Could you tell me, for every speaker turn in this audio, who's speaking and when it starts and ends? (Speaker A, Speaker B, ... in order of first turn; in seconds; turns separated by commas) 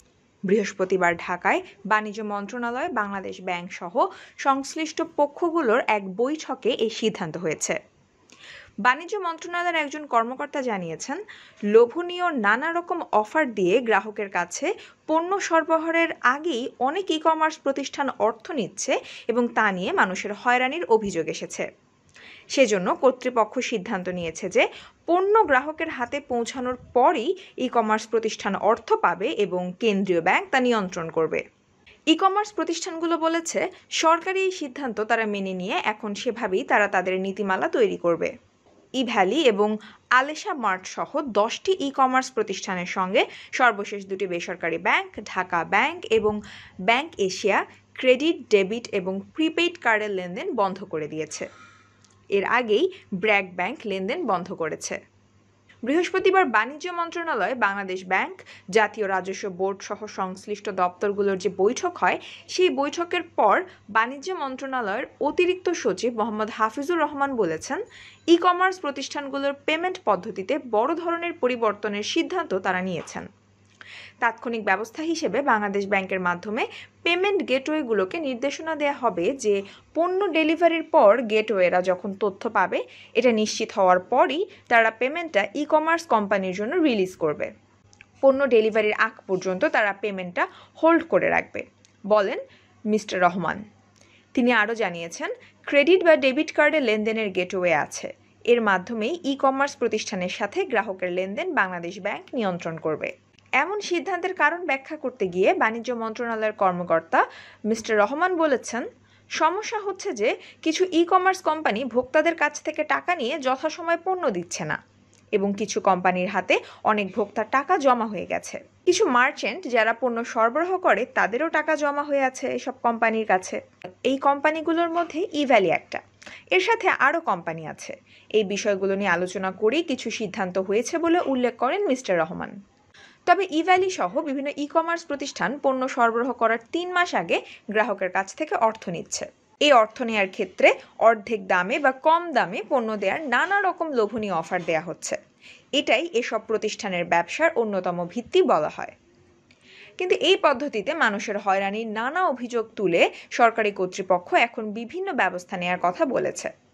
Speaker A: 0.5-7.8, Speaker A: 8.8-11.2, Speaker A: 11.7-21.7, Speaker A: 22.5-31.4, Speaker A: 32.1-38.3, Speaker A: 39.0-51.5, Speaker A: 52.3-55.0, Speaker A: 55.9-73.3, Speaker A: 74.2-87.5, Speaker A: 88.2-92.4, Speaker A: 92.9-93.6, Speaker A: 94.3-108.8, Speaker A: 109.4-114.8, Speaker A: 115.3-126.0, Speaker A: 126.5-132.5, Speaker A: 133.3-145.2, Speaker A: 145.8-148.9, Speaker A: 150.0-156.5